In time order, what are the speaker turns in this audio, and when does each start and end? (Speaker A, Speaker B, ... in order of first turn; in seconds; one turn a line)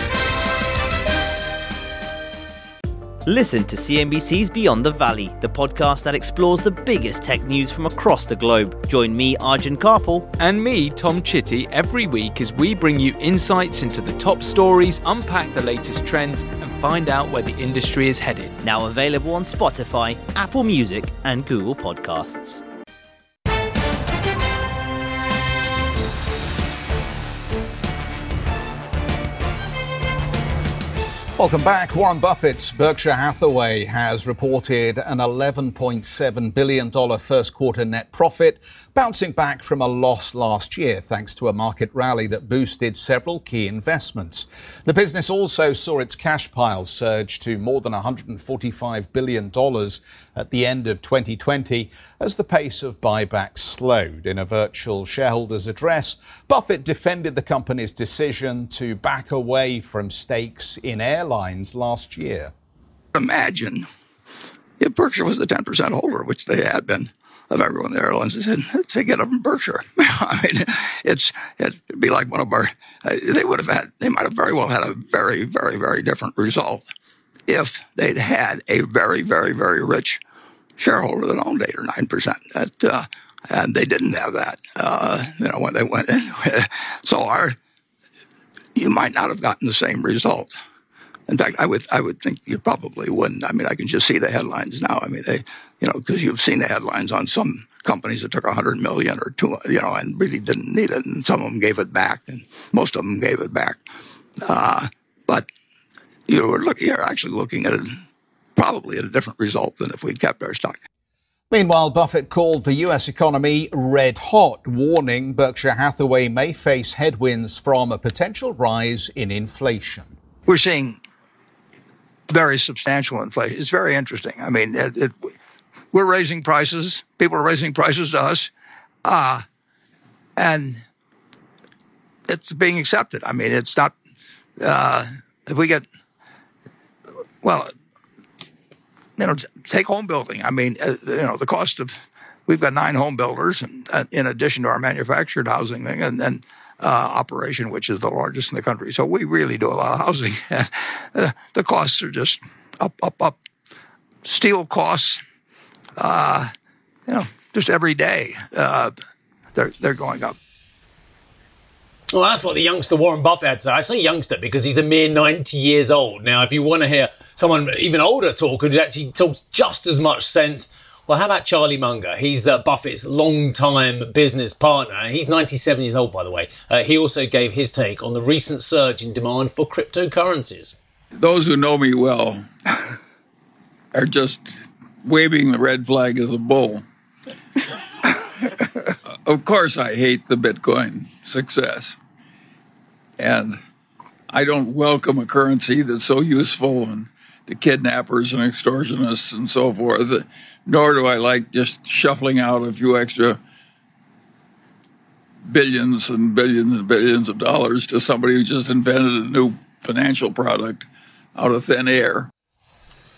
Speaker A: 3.2-10.3
Speaker B: 10.4-18.6
Speaker A: 18.6-22.6
Speaker C: 31.4-62.5
Speaker D: 63.1-63.9
Speaker D: 64.8-76.8
Speaker D: 77.5-80.2
Speaker D: 80.8-87.6
Speaker D: 88.8-90.5
Speaker D: 91.3-103.8
Speaker D: 104.4-105.5
Speaker D: 106.3-108.0
Speaker D: 108.6-110.8
Speaker C: 111.5-120.1
Speaker D: 120.5-121.0
Speaker D: 122.3-125.3
Speaker D: 125.9-128.5
Speaker D: 129.0-129.4
Speaker D: 130.4-130.8
Speaker D: 132.3-133.9
Speaker D: 134.6-135.8
Speaker D: 137.4-137.7
Speaker D: 139.2-141.9
Speaker D: 142.5-153.4
Speaker D: 154.2-155.2
Speaker D: 156.0-156.5
Speaker D: 157.1-158.9
Speaker D: 159.5-160.4
Speaker E: 162.1-180.8
Speaker F: 181.1-182.4
Speaker F: 183.9-186.8
Speaker F: 189.2-192.0
Speaker F: 193.2-193.6
Speaker F: 194.3-203.4
Speaker F: 205.5-212.3